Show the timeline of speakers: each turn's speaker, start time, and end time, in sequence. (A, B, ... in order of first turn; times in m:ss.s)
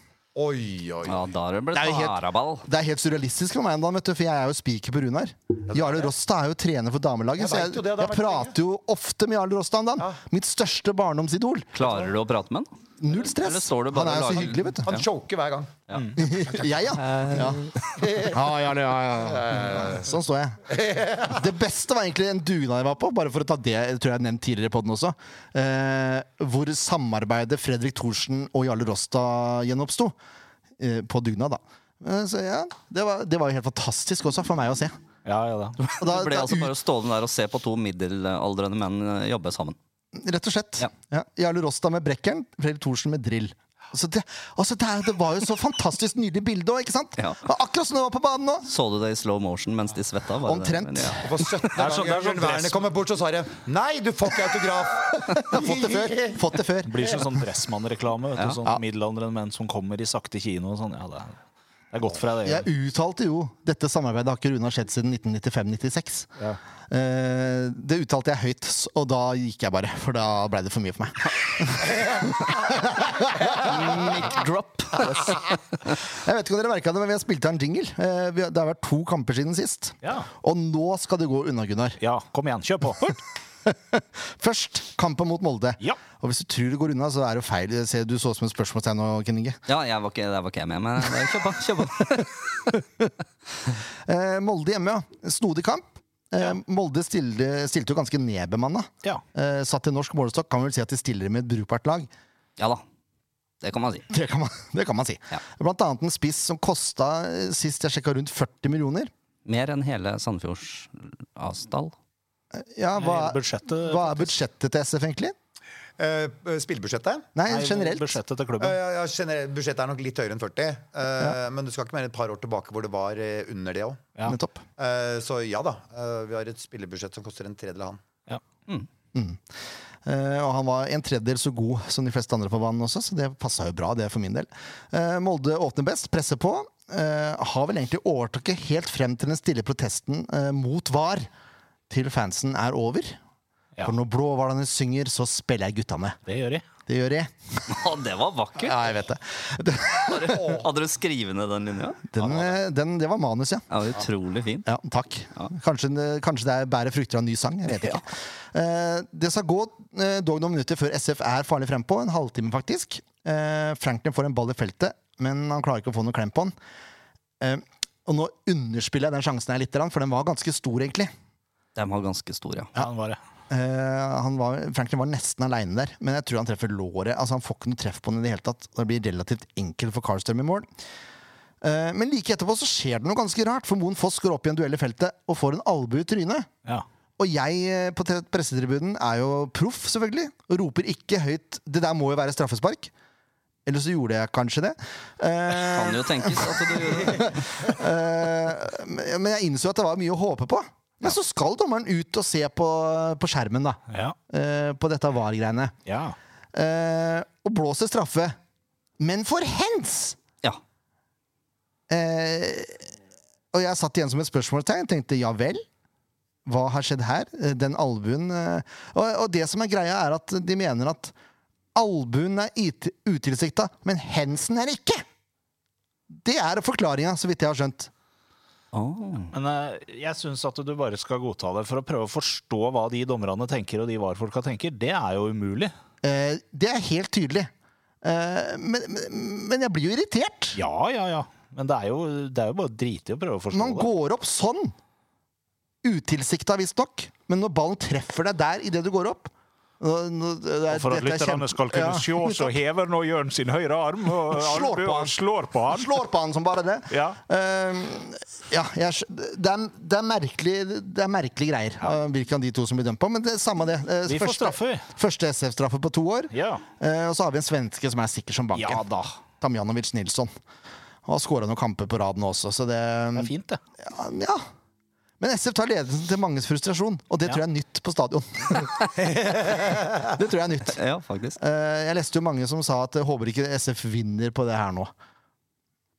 0:00.3-0:01.2 A
0:01.0-0:02.6 B
0:01.7-0:11.7 C
0:05.7-0:06.1 A
0:07.4-0:08.5 A
0:11.7-0:15.0 B
0:13.0-0:14.9 C
0:14.3-0:15.7 A
0:16.2-0:20.7 C
0:17.0-0:17.9 B
0:18.0-0:18.4 A
0:19.4-0:19.9 A
0:20.7-0:21.4 A
0:21.3-0:30.1 C
0:30.8-0:34.9 C
0:35.2-0:35.8 D
0:35.9-0:39.8 B
0:35.9-0:36.7 C
0:40.1-0:48.7 C
0:47.2-0:47.4 B
0:48.7-0:51.6 B
0:50.4-0:51.3 C
0:51.2-0:56.4 A
0:51.8-0:52.8 D
0:55.3-0:57.3 C
0:56.8-1:01.4 D
1:01.9-1:02.7 D
1:02.4-1:06.3 C
1:06.9-1:14.4 C
1:13.5-1:15.5 B
1:16.1-1:22.0 C
1:20.0-1:20.3 D
1:22.0-1:23.2 D
1:23.6-1:29.6 C
1:29.7-1:32.3 B
1:32.0-1:33.1 C
1:34.0-1:42.1 C
1:42.6-1:42.8 B
1:43.6-1:44.1 B
1:44.1-1:49.1 C
1:49.4-1:51.9 B
1:52.5-1:55.3 C
1:53.0-1:54.3 D
1:56.0-1:57.3 A
1:57.3-1:58.1 C
1:57.5-1:58.8 D
1:58.6-2:04.1 A
2:04.3-2:04.6 C
2:04.8-2:08.0 A
2:09.1-2:09.4 C
2:10.0-2:21.3 C
2:21.9-2:23.2 C
2:23.8-2:26.2 C
2:26.2-2:26.6 D
2:26.9-2:27.8 C
2:27.7-2:28.9 B
2:28.6-2:30.6 C
2:30.0-2:32.6 B
2:32.1-2:33.7 C
2:33.7-2:34.7 B
2:34.6-2:46.5 C
2:47.4-2:51.1 C
2:51.7-2:52.7 B
2:52.7-2:53.2 D
2:53.5-3:00.7 C
3:01.6-3:06.5 C
3:07.2-3:12.9 C
3:13.6-3:25.7 C
3:15.6-3:17.7 B
3:23.9-3:24.1 D
3:25.8-3:26.2 D
3:26.5-3:28.4 C
3:29.0-3:30.2 C
3:31.9-3:32.9 C
3:33.5-3:35.6 C
3:36.4-3:41.1 C
3:41.7-3:45.0 C
3:46.1-3:47.9 C
3:48.7-3:49.3 B
3:49.3-3:55.7 D
3:56.0-3:57.5 C
3:58.0-4:00.6 C
4:00.5-4:03.9 D
4:03.5-4:04.7 C
4:05.8-4:12.6 C
4:10.7-4:16.0 D
4:14.3-4:28.9 C
4:16.9-4:17.2 D
4:24.0-4:24.8 D
4:26.3-4:26.6 D
4:28.5-4:29.2 D
4:29.4-4:30.3 C
4:31.0-4:34.4 C
4:33.1-4:33.6 D
4:35.2-4:40.8 C
4:40.7-4:41.4 B
4:41.4-4:44.9 C